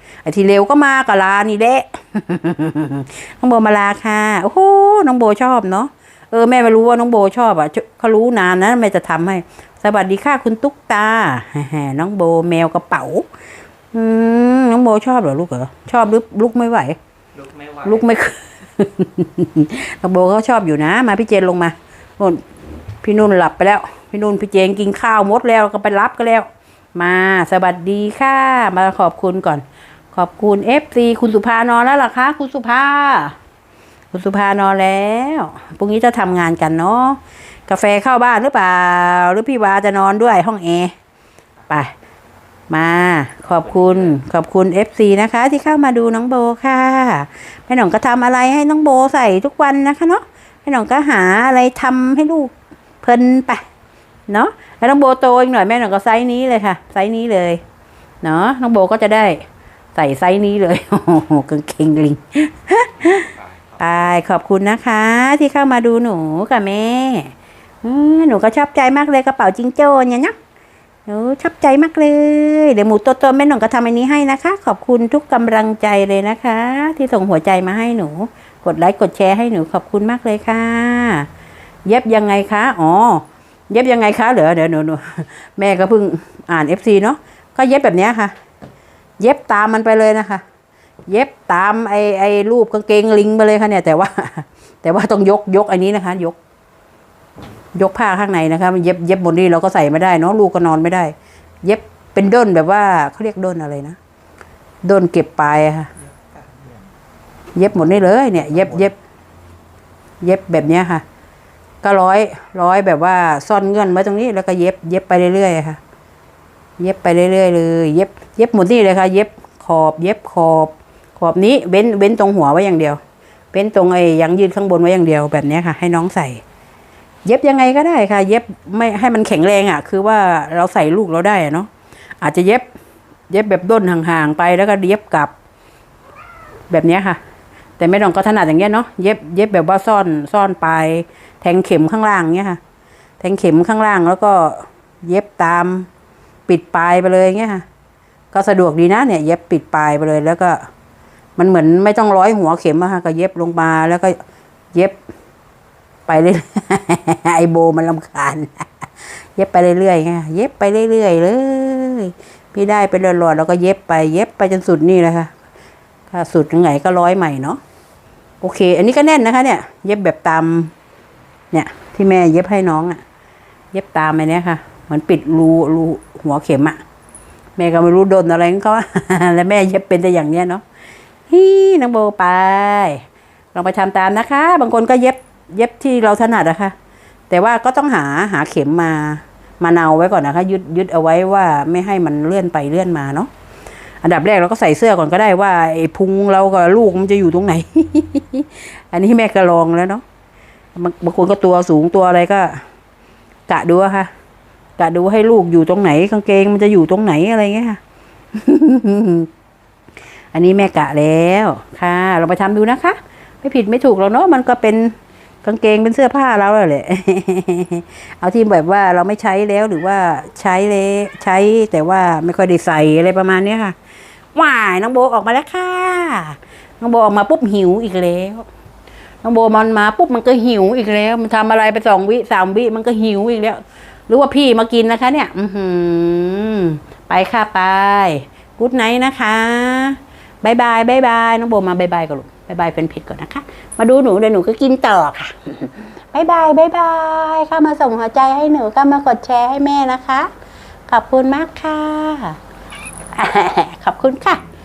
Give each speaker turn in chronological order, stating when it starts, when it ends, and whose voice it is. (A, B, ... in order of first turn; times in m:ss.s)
0:00.2-0:13.3 A
0:13.9-0:17.0 A
0:17.3-0:18.0 B
0:17.8-0:22.4 A
0:23.0-0:33.4 A
0:34.1-0:40.9 A
0:42.7-0:53.6 A
0:43.5-0:44.2 B
0:54.3-0:57.6 A
0:58.2-0:59.4 A
1:00.0-1:10.4 A
1:03.0-1:04.2 B
1:11.1-1:21.3 A
1:21.9-1:28.3 A
1:29.2-1:30.4 A
1:31.1-1:36.4 A
1:37.8-1:44.0 A
1:44.8-1:45.9 A
1:46.1-1:46.8 B
1:47.6-1:49.0 A
1:48.4-1:48.9 B
1:50.2-1:51.0 A
1:51.8-1:55.8 A
1:56.8-2:03.0 A
2:03.5-2:06.4 A
2:07.2-2:11.7 A
2:12.2-2:12.6 A
2:13.3-2:15.3 A
2:16.7-2:17.2 A
2:17.8-2:22.6 A
2:23.2-2:25.9 A
2:26.5-2:27.6 A
2:28.3-2:30.6 A
2:31.4-2:34.2 A
2:36.1-2:38.7 A
2:39.4-2:45.3 A
2:46.1-2:47.6 A
2:48.4-2:50.7 A
2:51.5-2:53.0 A
2:53.7-2:56.8 A
2:57.6-3:00.6 A
3:01.3-3:03.0 A
3:03.5-3:06.7 A
3:07.3-3:13.3 A
3:14.0-3:20.0 A
3:20.8-3:22.6 A
3:23.5-3:24.1 A
3:24.8-3:27.8 A
3:28.3-3:29.3 A
3:30.3-3:34.9 A
3:35.4-3:43.8 A
3:44.3-3:48.5 A
3:49.2-4:10.3 A
4:10.9-4:12.4 A
4:13.1-4:14.4 A